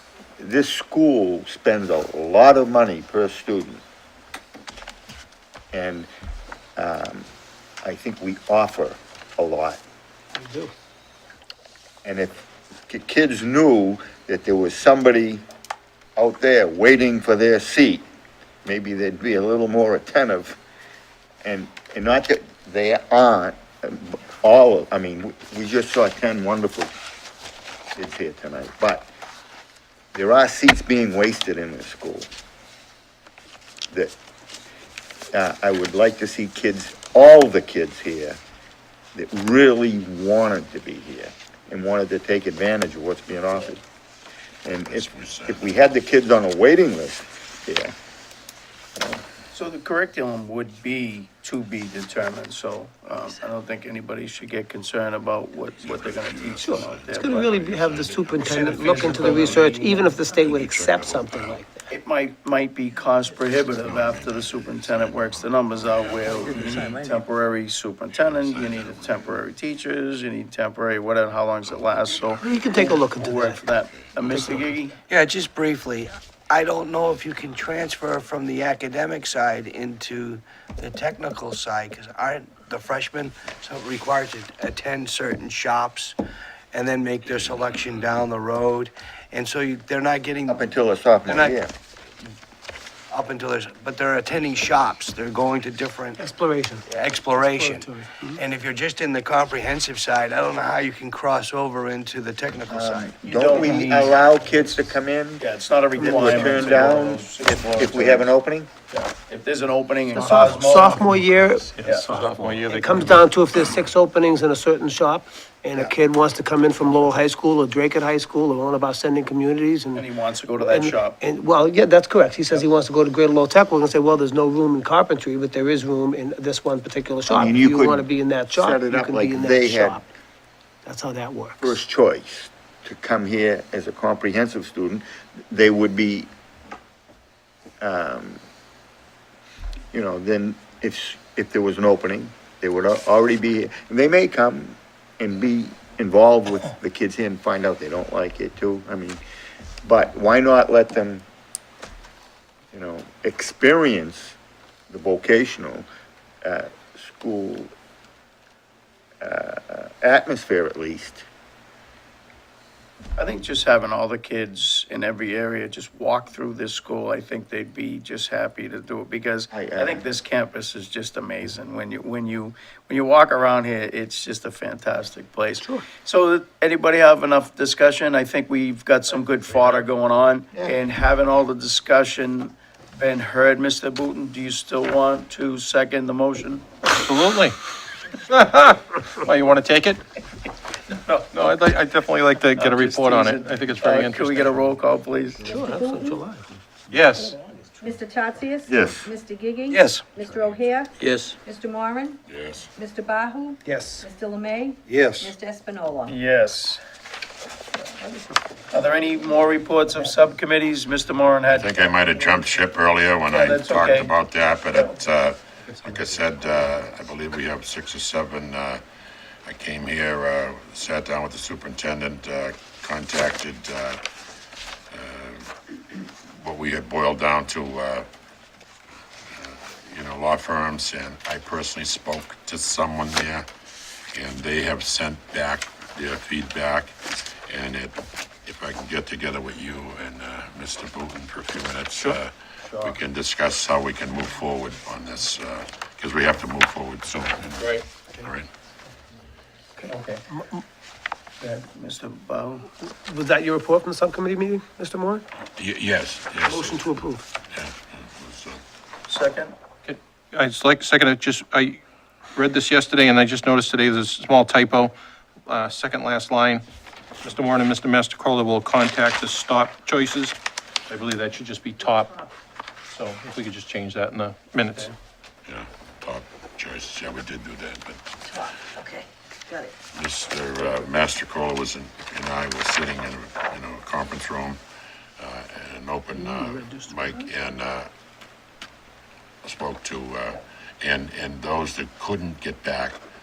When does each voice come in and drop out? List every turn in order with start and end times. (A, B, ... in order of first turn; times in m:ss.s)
0:00.4-0:03.8 A
0:05.7-0:06.1 A
0:06.8-0:07.3 A
0:07.8-0:09.8 A
0:10.4-0:10.7 B
0:12.0-0:15.4 A
0:16.2-0:18.0 A
0:18.6-0:20.6 A
0:21.4-0:26.9 A
0:28.0-0:29.1 A
0:30.1-0:32.3 A
0:35.3-0:38.4 A
0:39.2-0:43.8 A
0:44.6-0:47.9 A
0:44.9-0:45.6 C
0:49.5-0:57.5 D
0:55.8-0:58.9 C
0:56.7-1:01.9 B
0:58.4-1:00.1 E
0:58.6-1:00.0 D
1:00.4-1:01.6 C
1:01.9-1:15.0 D
1:03.8-1:06.9 C
1:06.4-1:07.0 E
1:08.1-1:09.3 C
1:12.4-1:13.6 B
1:15.1-1:26.2 E
1:26.7-1:30.7 E
1:30.5-1:31.7 A
1:31.3-1:31.6 E
1:33.1-1:36.3 E
1:36.2-1:36.9 B
1:36.9-1:43.2 E
1:37.4-1:38.4 B
1:42.7-1:45.5 A
1:43.2-1:44.2 D
1:45.4-1:48.3 D
1:46.0-1:46.8 B
1:46.0-1:48.7 A
1:48.9-1:51.1 D
1:50.1-2:00.1 B
1:52.1-1:53.1 C
2:00.0-2:01.2 D
2:00.6-2:10.1 B
2:07.3-2:10.0 A
2:10.8-2:11.8 B
2:11.6-2:16.3 A
2:17.8-2:18.4 A
2:19.9-2:29.2 A
2:29.8-2:31.2 A
2:32.7-2:34.4 A
2:34.9-2:35.9 A
2:36.4-2:37.7 A
2:39.2-2:41.2 A
2:43.2-3:06.6 D
2:49.5-2:50.0 A
3:07.0-3:07.6 F
3:08.3-3:10.0 F
3:11.3-3:14.5 F
3:12.6-3:15.6 D
3:15.4-3:16.2 G
3:15.5-3:16.1 B
3:15.6-3:16.3 E
3:16.9-3:17.3 F
3:17.8-3:22.2 G
3:18.7-3:19.1 A
3:19.7-3:20.1 E
3:21.0-3:21.3 E
3:22.3-3:22.7 C
3:22.7-3:26.1 G
3:23.7-3:24.1 B
3:24.9-3:25.3 E
3:26.1-3:26.8 D
3:28.7-3:31.9 D
3:31.5-3:38.8 C
3:33.3-3:34.1 D
3:34.7-3:35.0 D
3:39.4-3:44.0 C
3:44.9-3:48.1 C
3:49.3-3:53.5 C
3:54.1-3:57.0 C
3:57.5-4:08.5 C
4:02.7-4:03.0 D
4:09.8-4:10.2 D
4:11.4-4:12.7 D
4:12.9-4:15.2 B
4:15.6-4:18.6 C
4:16.4-4:17.2 B
4:19.1-4:19.5 D
4:19.9-4:21.8 F
4:22.4-4:24.9 F
4:25.5-4:26.6 F
4:27.3-4:30.4 F
4:30.9-4:32.1 F
4:32.9-4:34.8 F
4:35.4-4:38.0 C
4:39.9-4:44.6 C
4:45.2-4:47.9 C
4:46.2-4:47.0 B
4:49.4-4:53.0 C